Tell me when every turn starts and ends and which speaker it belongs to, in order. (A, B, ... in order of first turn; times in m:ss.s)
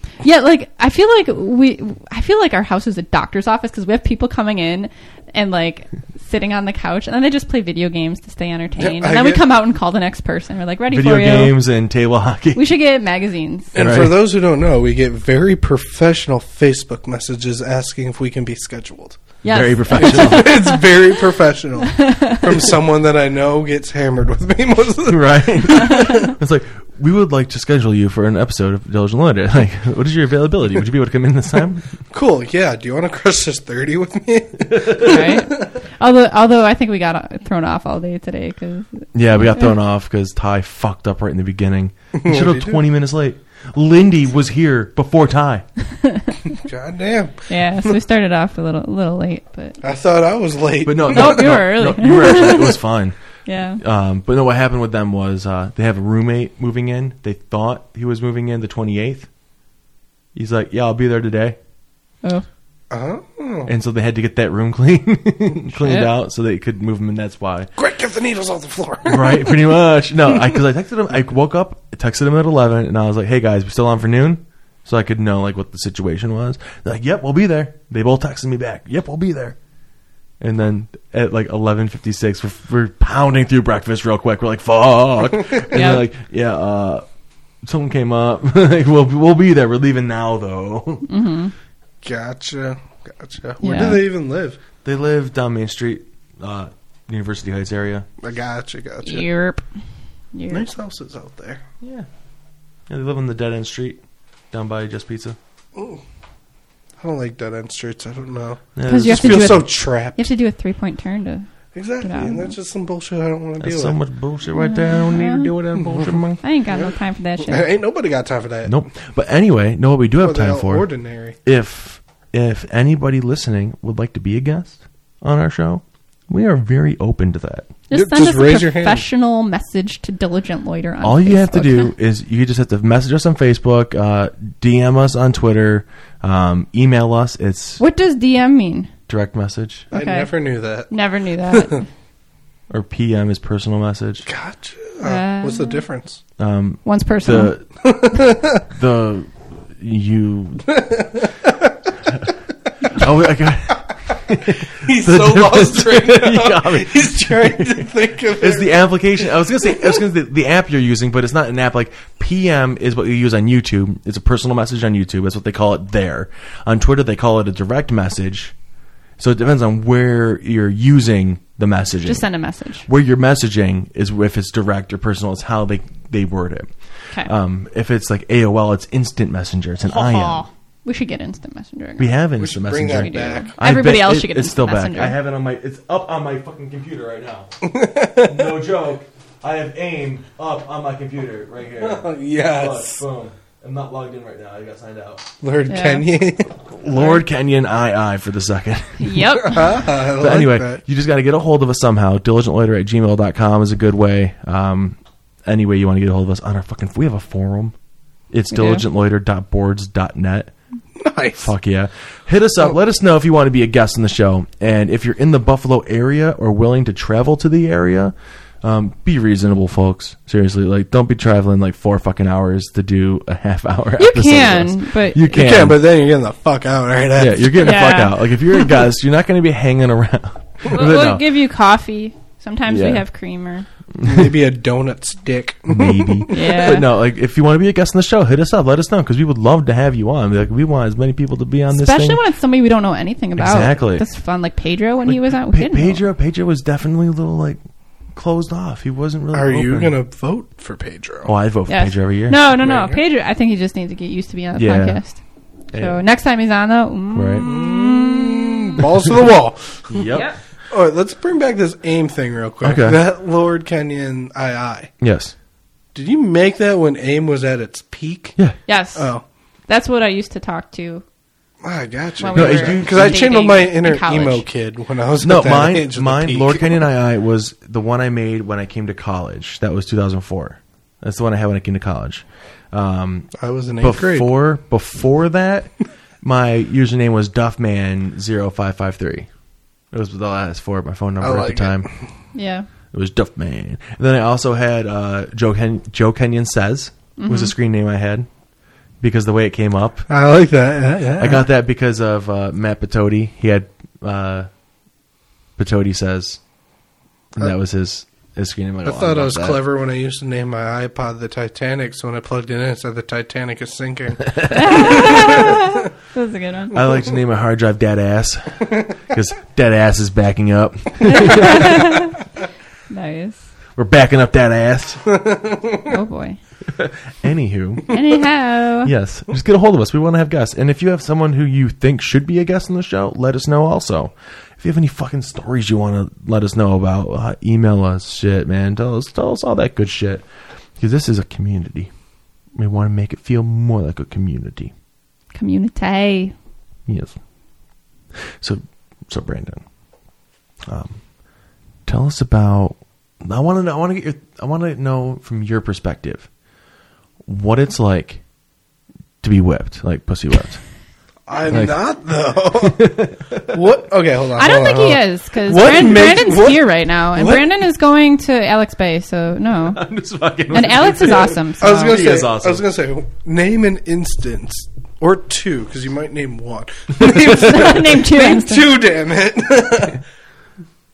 0:00.2-0:11.6 A
0:08.8-0:09.5 B
0:10.9-0:12.6 C
0:12.6-0:13.8 A
0:13.7-0:19.2 B
0:13.8-0:14.3 C
0:19.4-0:21.2 A
0:19.5-0:20.6 C
0:19.9-0:26.3 B
0:21.9-0:22.6 A
0:25.1-0:32.0 C
0:25.8-0:26.3 A
0:32.1-0:35.7 B
0:34.8-0:35.1 C
0:35.0-0:39.7 A
0:39.1-0:45.6 C
0:42.2-0:42.8 B
0:45.9-0:46.5 A
0:46.6-0:47.9 B
0:47.5-0:49.8 A
0:49.8-0:51.6 B
0:50.8-0:53.2 C
0:51.1-0:52.8 A
0:53.5-0:53.8 A
0:53.8-0:59.3 C
1:00.4-1:01.6 C
1:02.9-1:03.7 B
1:03.7-1:07.7 C
1:05.8-1:06.1 A
1:07.8-1:09.8 B
1:09.0-1:19.6 C
1:20.4-1:27.0 C
1:25.7-1:26.0 A
1:27.6-1:31.1 C
1:31.1-1:31.5 A
1:32.0-1:34.6 B
1:33.6-1:34.0 A
1:34.8-1:38.1 C
1:38.2-1:39.3 B
1:39.0-1:39.6 A
1:40.3-1:40.7 A
1:40.5-1:41.6 B
1:41.8-1:42.1 C
1:42.9-1:44.0 C
1:44.5-1:45.4 C
1:45.8-1:46.0 B
1:47.0-1:50.3 B
1:48.8-1:49.7 C
1:48.9-1:51.5 A
1:51.7-1:54.0 B
1:52.0-1:52.5 A
1:53.6-1:56.4 C
1:54.5-1:55.6 A
1:55.8-1:56.1 B
1:56.4-1:57.7 A
1:56.7-1:58.8 B
1:58.7-2:00.9 C
2:00.2-2:01.4 B
2:01.4-2:07.7 C
2:07.9-2:11.9 A
2:07.9-2:09.1 B
2:11.0-2:17.8 C
2:17.8-2:18.9 A
2:19.1-2:19.9 C
2:19.9-2:20.9 B
2:19.9-2:20.3 A
2:20.9-2:21.9 A
2:22.7-2:24.3 C
2:24.3-2:26.2 B
2:25.0-2:25.8 A
2:26.4-2:27.6 C
2:26.8-2:27.6 A
2:27.8-2:28.7 B
2:28.7-2:30.7 C
2:30.7-2:31.7 B
2:32.9-2:48.5 C
2:34.7-2:40.0 B
2:49.2-2:52.3 C
2:52.0-2:52.9 A
2:52.9-3:00.4 C
2:59.9-3:02.2 A
3:02.0-3:07.5 C
3:02.4-3:03.6 B
3:02.9-3:05.2 A
3:07.6-3:08.5 B
3:08.2-3:15.3 C
3:11.8-3:13.0 B
3:15.4-3:16.7 B
3:15.7-3:16.0 A
3:16.8-3:19.2 C
3:19.0-3:19.8 A
3:19.4-3:20.8 B
3:20.1-3:27.8 C
3:28.3-3:30.5 C
3:28.5-3:28.8 A
3:31.0-3:31.5 B
3:31.4-3:45.8 C
3:44.0-3:45.4 A
3:45.3-3:47.9 B
3:47.2-3:51.2 C
3:47.6-3:48.7 A
3:50.7-3:53.7 A
3:52.7-3:53.0 C
3:54.0-3:54.3 C
3:54.0-3:56.7 B
3:55.7-4:02.2 C
3:56.3-3:56.9 A
4:01.7-4:06.0 A
4:03.4-4:04.0 C
4:05.1-4:07.6 C
4:08.1-4:10.0 C
4:09.3-4:11.3 B
4:11.2-4:12.4 C
4:11.7-4:15.2 A
4:12.6-4:13.0 B
4:14.6-4:15.0 C
4:15.7-4:16.0 C
4:15.7-4:18.8 A
4:17.2-4:17.5 C
4:17.4-4:20.2 B
4:19.9-4:20.3 C
4:20.1-4:20.4 A
4:20.7-4:24.9 B
4:22.6-4:23.0 C
4:25.0-4:25.3 C
4:26.0-4:28.4 B
4:28.7-4:29.1 A
4:29.0-4:29.2 B
4:29.7-4:31.0 A
4:31.6-4:36.8 B
4:32.2-4:34.4 A
4:32.3-4:33.3 C
4:35.2-4:45.7 C
4:43.4-4:44.3 B
4:46.2-4:49.3 C
4:49.9-4:51.9 C
4:51.2-4:52.0 B
4:52.3-4:52.7 A
4:52.9-4:58.3 C
4:57.2-4:57.5 A
4:59.0-5:00.0 C
5:00.1-5:01.5 B
5:01.2-5:04.5 C
5:05.6-5:06.4 C
5:07.4-5:09.6 C
5:08.8-5:15.6 B
5:14.4-5:14.9 C
5:14.4-5:16.8 A
5:16.7-5:22.0 C
5:21.0-5:22.2 A
5:22.9-5:23.4 A
5:23.8-5:25.0 C
5:25.1-5:25.9 B
5:25.9-5:26.4 A
5:26.7-5:28.0 C
5:27.9-5:28.9 A
5:28.8-5:40.2 C
5:40.8-5:41.9 C
5:42.6-5:44.7 C
5:45.3-5:46.3 A
5:46.9-5:47.2 C
5:48.4-5:49.6 C
5:50.7-5:51.0 C
5:51.9-5:56.3 C
5:57.3-5:58.2 C
5:59.2-6:00.6 C
6:01.3-6:02.9 B
6:01.5-6:01.8 C
6:02.6-6:03.6 C
6:03.5-6:07.5 B
6:04.4-6:09.8 A
6:09.6-6:12.6 C
6:10.5-6:12.0 A
6:11.6-6:20.0 B
6:17.0-6:18.7 A